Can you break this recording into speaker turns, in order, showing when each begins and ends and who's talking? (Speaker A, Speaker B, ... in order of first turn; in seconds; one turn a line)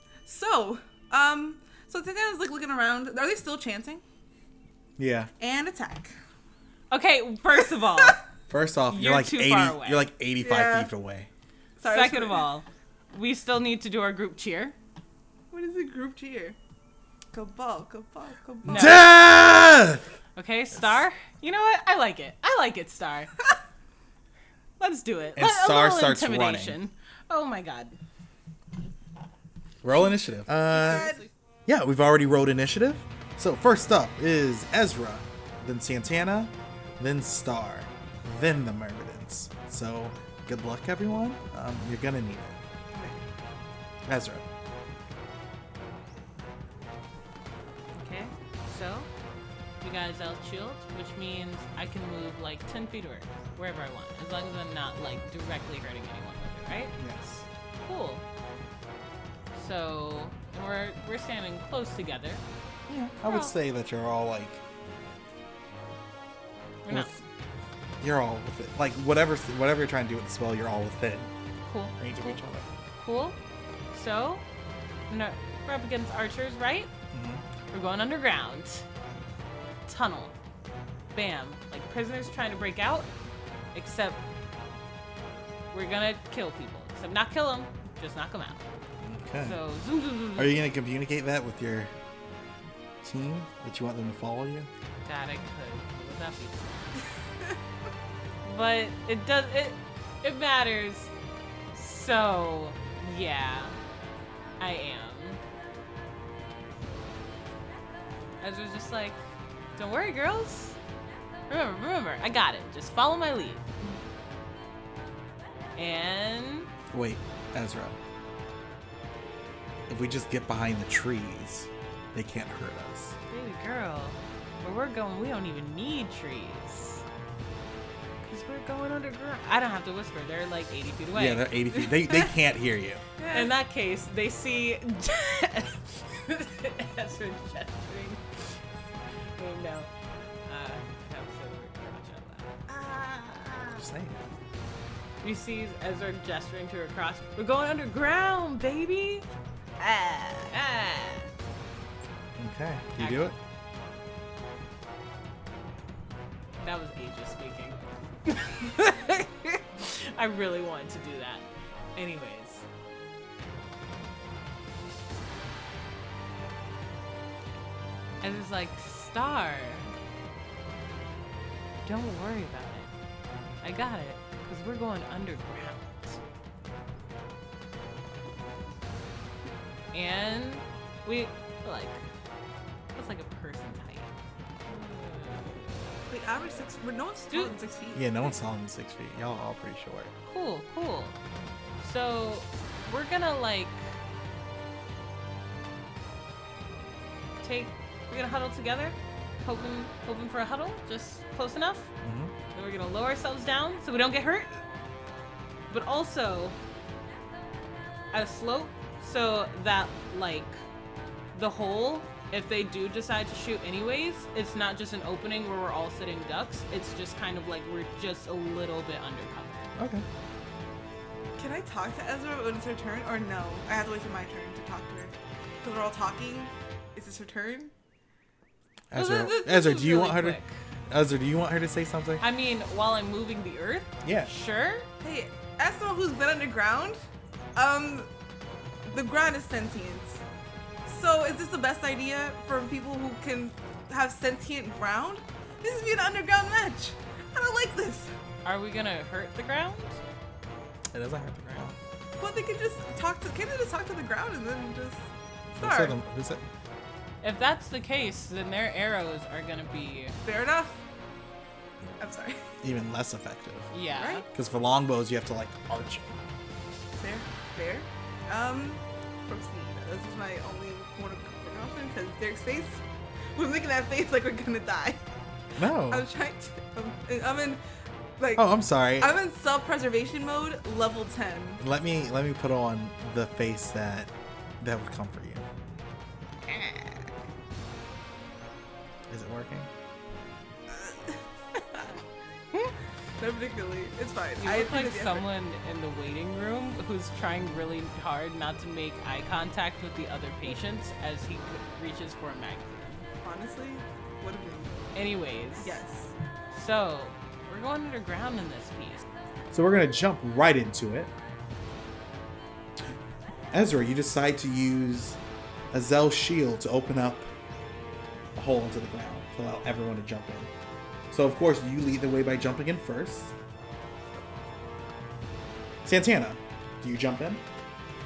Speaker A: 0.2-4.0
Speaker B: 5.0-5.3
Speaker A: 5.4-6.1
Speaker C: 6.9-8.2
Speaker B: 8.5-11.3
Speaker C: 8.9-10.1
Speaker A: 10.4-10.9
Speaker A: 11.8-12.5
Speaker C: 11.8-14.8
Speaker A: 15.5-16.6
Speaker A: 17.3-19.0
Speaker B: 18.6-20.1
Speaker C: 18.7-19.1
Speaker C: 20.4-23.4
Speaker C: 24.8-28.0
Speaker B: 25.4-26.8
Speaker B: 29.8-31.1
Speaker A: 30.7-31.3
Speaker C: 30.7-31.2
Speaker B: 31.7-42.6
Speaker A: 42.9-43.2
Speaker B: 44.0-44.4
Speaker C: 48.0-49.1
Speaker C: 49.8-56.9
Speaker B: 57.0-57.5
Speaker C: 57.8-58.2
Speaker C: 59.5-62.4
Speaker B: 62.9-64.6
Speaker C: 63.2-63.5
Speaker C: 66.8-67.1
Speaker B: 66.9-67.2
Speaker B: 68.0-71.3
Speaker C: 71.7-72.4
Speaker B: 72.0-72.7
Speaker C: 73.0-73.4
Speaker C: 73.9-74.4
Speaker C: 75.1-76.9
Speaker B: 77.1-77.4
Speaker C: 77.7-78.8
Speaker C: 79.9-80.3
Speaker C: 81.1-83.1
Speaker C: 83.7-84.2
Speaker C: 85.7-88.6
Speaker B: 89.0-89.6
Speaker C: 89.4-90.5
Speaker B: 90.3-91.9
Speaker B: 93.0-94.7
Speaker C: 95.0-97.1
Speaker C: 98.4-101.1
Speaker C: 101.7-103.8
Speaker C: 104.6-105.4
Speaker C: 108.4-109.2
Speaker C: 109.8-110.8
Speaker C: 111.5-113.7
Speaker C: 115.8-116.7
Speaker B: 116.9-118.0
Speaker B: 119.9-123.2
Speaker C: 123.3-127.0
Speaker C: 128.2-131.5
Speaker B: 131.1-133.0
Speaker A: 133.2-133.5
Speaker C: 133.3-138.6
Speaker C: 139.4-139.9
Speaker C: 140.4-142.6
Speaker A: 142.7-143.7
Speaker B: 143.8-144.3
Speaker C: 145.2-149.2
Speaker A: 149.8-150.4
Speaker C: 149.8-151.3
Speaker B: 152.4-153.3
Speaker C: 153.0-153.3
Speaker C: 156.6-162.6
Speaker C: 168.2-169.9
Speaker C: 171.8-172.9
Speaker C: 173.6-176.2
Speaker C: 179.9-182.0
Speaker C: 182.9-184.1
Speaker C: 184.7-186.1
Speaker A: 186.1-188.3
Speaker B: 187.9-190.1
Speaker C: 190.3-191.2
Speaker C: 191.8-194.0
Speaker C: 197.4-201.9
Speaker B: 202.0-202.3
Speaker C: 202.5-204.6
Speaker C: 205.7-206.6
Speaker C: 208.1-210.6
Speaker C: 211.3-219.7
Speaker B: 219.8-220.0
Speaker A: 221.4-227.7
Speaker B: 228.9-232.2
Speaker C: 228.9-230.5
Speaker C: 232.2-234.9
Speaker B: 234.0-234.3
Speaker A: 235.0-237.0
Speaker A: 237.5-238.1
Speaker A: 238.8-240.2
Speaker A: 240.8-248.1
Speaker C: 248.4-250.0
Speaker B: 250.9-251.8
Speaker A: 252.2-255.9
Speaker B: 255.5-256.4
Speaker C: 257.2-260.2
Speaker A: 260.2-260.8
Speaker A: 262.0-262.5
Speaker B: 262.6-263.7
Speaker C: 263.7-264.2
Speaker A: 263.9-264.2
Speaker B: 264.3-266.2
Speaker A: 267.0-272.8
Speaker A: 273.3-275.0
Speaker B: 275.6-276.1
Speaker A: 275.8-277.6
Speaker A: 278.2-281.6
Speaker B: 278.4-279.1
Speaker B: 281.6-285.5
Speaker A: 286.5-287.1
Speaker B: 289.1-289.7
Speaker A: 290.7-291.9
Speaker A: 293.2-295.3
Speaker C: 294.4-303.1
Speaker A: 303.2-304.8
Speaker C: 304.9-305.8
Speaker A: 305.6-306.1
Speaker C: 306.5-309.1
Speaker B: 309.5-311.1
Speaker B: 313.5-315.2
Speaker B: 315.7-317.3
Speaker B: 318.4-320.5
Speaker B: 321.1-323.3
Speaker B: 325.8-327.4